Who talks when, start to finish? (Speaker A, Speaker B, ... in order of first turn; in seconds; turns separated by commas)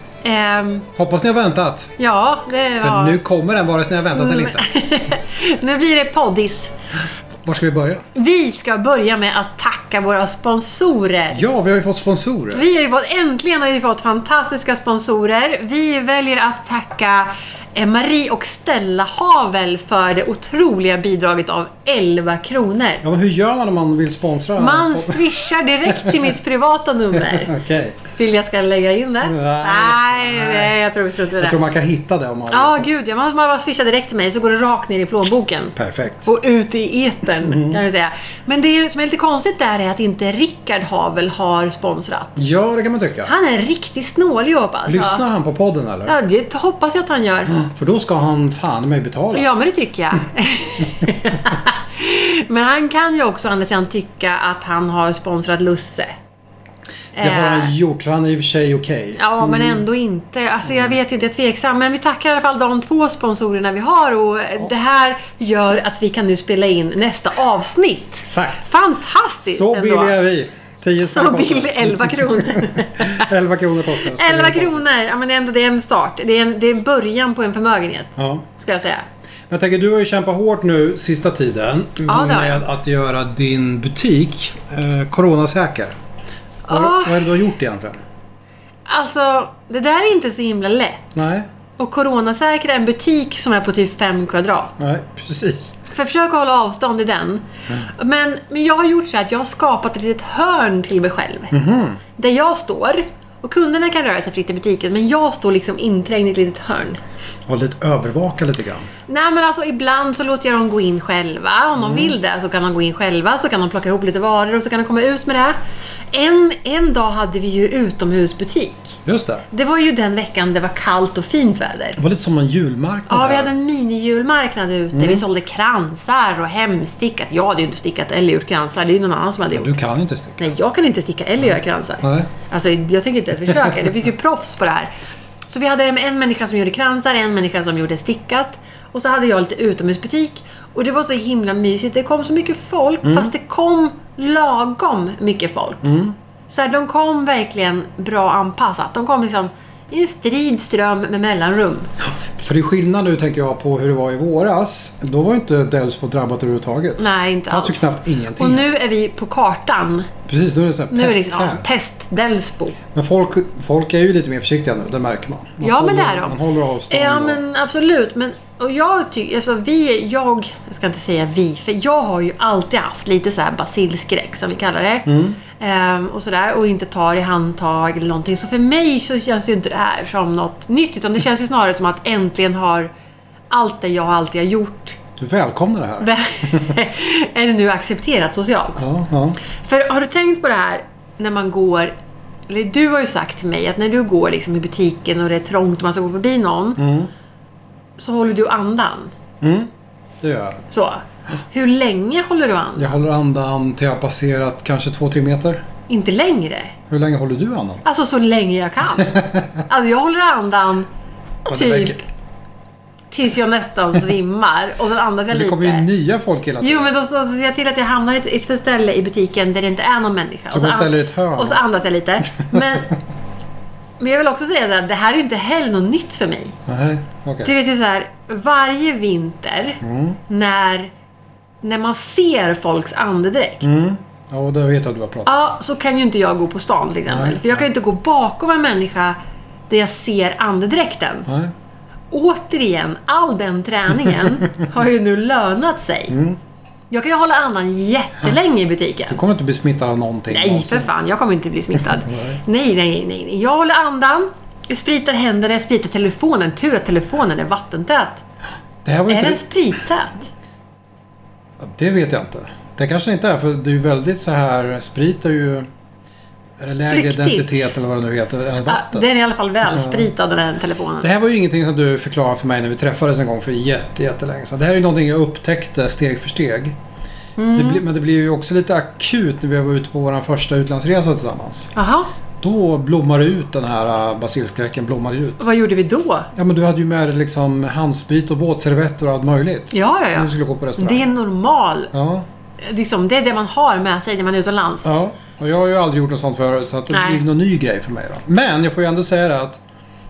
Speaker A: 0.2-0.9, Speaker B: 0.9-1.9, Speaker A: 2.0-3.2, Speaker B: 2.8-4.7, Speaker A: 4.1-6.7, Speaker B: 7.4-8.1, Speaker A: 8.1-11.4, Speaker B: 11.3-12.7, Speaker A: 12.5-23.0, Speaker B: 23.0-26.3, Speaker A: 24.6-27.5, Speaker B: 27.1-28.0, Speaker A: 28.1-31.6, Speaker B: 29.2-30.7, Speaker B: 31.4-32.9, Speaker A: 32.5-42.4, Speaker B: 35.8-36.3, Speaker B: 37.4-37.8, Speaker B: 42.4-43.3, Speaker A: 43.2-45.2, Speaker B: 44.9-46.1, Speaker A: 46.0-47.6, Speaker B: 47.5-49.5, Speaker A: 49.3-56.1, Speaker A: 57.1-57.7, Speaker B: 57.2-59.8, Speaker A: 59.1-70.2, Speaker B: 60.7-60.9, Speaker B: 68.2-68.6, Speaker B: 69.4-74.9, Speaker A: 71.0-73.3, Speaker A: 74.0-79.0, Speaker B: 78.2-78.5, Speaker B: 79.5-86.0, Speaker A: 82.1-82.6, Speaker A: 86.7-87.3, Speaker B: 86.7-88.0, Speaker A: 88.9-91.2, Speaker B: 91.1-91.5, Speaker A: 91.8-94.8, Speaker B: 94.8-95.8, Speaker A: 95.9-101.5, Speaker B: 101.5-102.0, Speaker A: 102.2-107.0, Speaker B: 107.5-108.9, Speaker A: 109.1-115.6, Speaker B: 111.8-112.1, Speaker A: 116.1-119.0, Speaker B: 119.0-119.4, Speaker A: 119.5-122.0, Speaker B: 122.0-123.5, Speaker A: 123.1-129.8, Speaker B: 124.9-125.2, Speaker B: 129.5-130.5, Speaker A: 130.4-134.9, Speaker B: 131.4-132.3, Speaker B: 133.5-133.7, Speaker A: 135.5-145.9, Speaker B: 143.0-143.3, Speaker B: 145.8-146.2, Speaker A: 146.5-151.9, Speaker B: 152.4-158.7, Speaker A: 157.0-160.1, Speaker B: 160.3-161.6, Speaker A: 160.9-162.8, Speaker B: 162.9-167.4, Speaker A: 165.6-166.4, Speaker A: 166.9-182.9, Speaker B: 175.1-175.4, Speaker A: 183.5-185.0, Speaker B: 185.2-186.8, Speaker A: 186.0-188.8, Speaker B: 188.8-189.4, Speaker A: 189.6-191.9, Speaker A: 192.5-196.8, Speaker B: 196.8-197.1, Speaker A: 198.0-199.1, Speaker B: 199.4-200.6, Speaker A: 200.7-202.9, Speaker B: 202.8-205.6, Speaker A: 205.9-206.7, Speaker B: 206.9-207.8, Speaker A: 207.8-210.9, Speaker B: 209.0-209.6, Speaker A: 211.4-212.0, Speaker B: 211.5-212.0, Speaker A: 213.1-215.8, Speaker B: 215.3-216.9, Speaker A: 216.6-223.0, Speaker B: 220.5-221.6, Speaker B: 222.4-222.8, Speaker A: 224.0-226.6, Speaker B: 226.7-227.5, Speaker A: 227.4-230.9, Speaker B: 229.8-230.2, Speaker A: 231.6-233.7, Speaker B: 233.6-235.5, Speaker A: 235.2-239.2, Speaker B: 237.1-237.6, Speaker A: 239.7-241.3, Speaker B: 241.3-241.5, Speaker A: 242.1-246.2, Speaker B: 246.1-246.4, Speaker A: 246.9-249.2, Speaker B: 249.1-250.9, Speaker A: 250.3-258.2, Speaker B: 251.9-252.4, Speaker B: 258.8-259.4, Speaker A: 259.1-260.3, Speaker B: 261.6-265.7, Speaker B: 266.6-269.1, Speaker A: 266.9-267.7, Speaker A: 268.6-271.1, Speaker B: 269.7-270.1, Speaker B: 271.0-276.8, Speaker A: 277.4-277.8, Speaker B: 277.5-281.7, Speaker A: 281.7-282.1, Speaker B: 282.4-285.4, Speaker A: 285.4-286.3, Speaker B: 286.3-291.1, Speaker A: 289.7-291.9, Speaker B: 291.9-292.2, Speaker A: 292.6-294.9, Speaker B: 294.8-299.6, Speaker A: 296.9-297.2